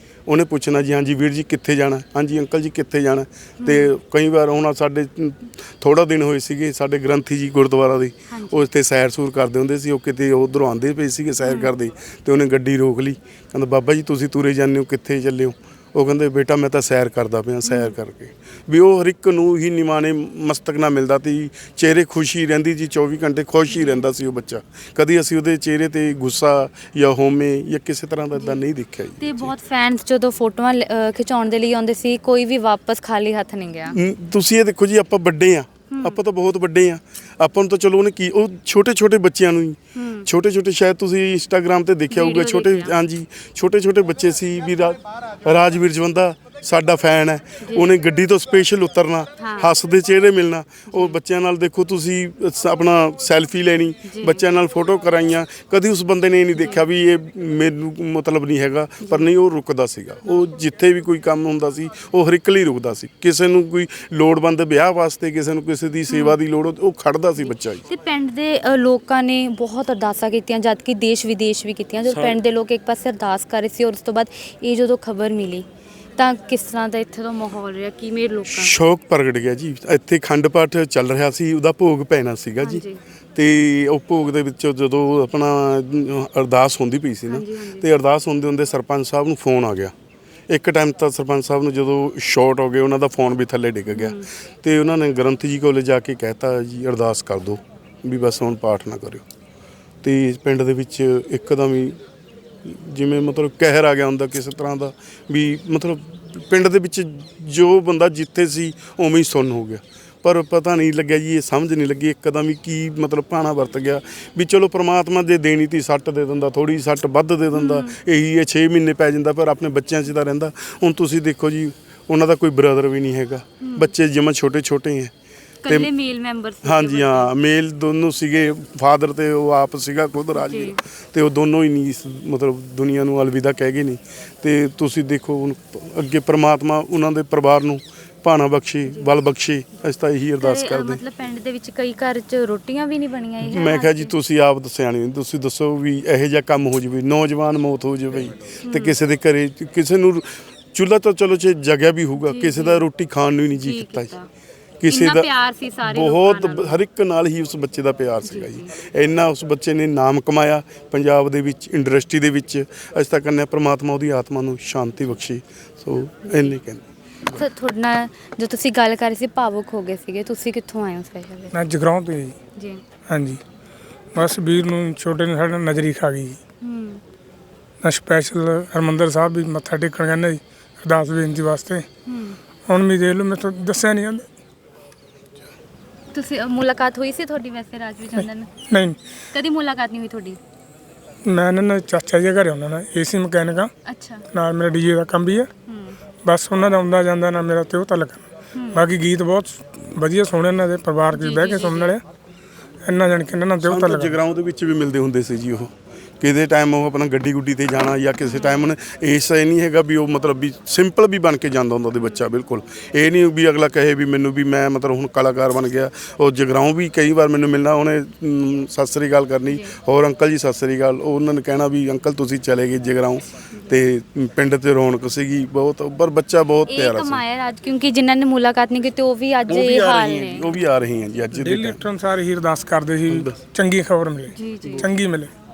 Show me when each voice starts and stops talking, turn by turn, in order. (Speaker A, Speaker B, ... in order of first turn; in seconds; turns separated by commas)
Speaker A: 0.3-29.5, Speaker B: 3.6-3.9, Speaker B: 8.3-8.6, Speaker B: 11.4-11.7, Speaker B: 17.6-17.9, Speaker B: 23.7-24.1, Speaker B: 28.4-28.6, Speaker B: 29.2-34.0, Speaker A: 33.9-67.8, Speaker B: 35.9-36.2, Speaker B: 40.0-40.3, Speaker B: 42.1-42.9, Speaker B: 47.6-47.9, Speaker B: 49.4-49.7, Speaker B: 50.9-51.2, Speaker B: 54.0-54.4, Speaker B: 59.0-59.3, Speaker B: 66.1-66.4, Speaker B: 67.5-75.7, Speaker A: 72.1-72.4, Speaker B: 76.2-78.8, Speaker A: 78.5-82.8, Speaker B: 82.6-83.0, Speaker A: 83.3-89.9, Speaker B: 87.3-87.9, Speaker A: 90.5-99.2, Speaker B: 93.9-94.3, Speaker A: 100.0-102.0, Speaker A: 102.6-125.1, Speaker B: 117.5-118.0, Speaker B: 123.6-123.9, Speaker B: 125.6-127.3, Speaker A: 126.6-141.0, Speaker B: 130.3-130.8, Speaker B: 140.4-144.1, Speaker A: 143.4-154.1, Speaker B: 148.6-149.0, Speaker B: 152.2-152.8, Speaker B: 153.6-154.3, Speaker A: 154.8-155.3, Speaker B: 154.9-156.8, Speaker A: 155.8-167.4, Speaker B: 158.3-158.7, Speaker B: 167.3-171.5, Speaker C: 171.5-172.3, Speaker B: 172.6-172.8, Speaker C: 173.1-173.4, Speaker C: 174.2-176.4, Speaker B: 176.6-177.0, Speaker C: 177.8-181.9, Speaker B: 182.1-182.4, Speaker C: 182.7-184.3, Speaker B: 186.1-188.5, Speaker C: 188.7-189.0, Speaker B: 189.3-190.4, Speaker C: 191.2-193.7, Speaker B: 193.8-194.3, Speaker C: 194.3-195.5, Speaker B: 195.7-196.0, Speaker C: 196.2-202.0, Speaker B: 198.5-198.9, Speaker B: 201.1-201.9, Speaker C: 202.8-204.2, Speaker A: 203.6-227.2, Speaker B: 208.2-208.7, Speaker B: 219.5-219.8, Speaker B: 223.5-223.8, Speaker B: 226.7-230.6, Speaker A: 229.5-231.8, Speaker C: 231.4-235.3, Speaker A: 233.1-233.4, Speaker B: 234.3-234.9, Speaker A: 234.6-234.9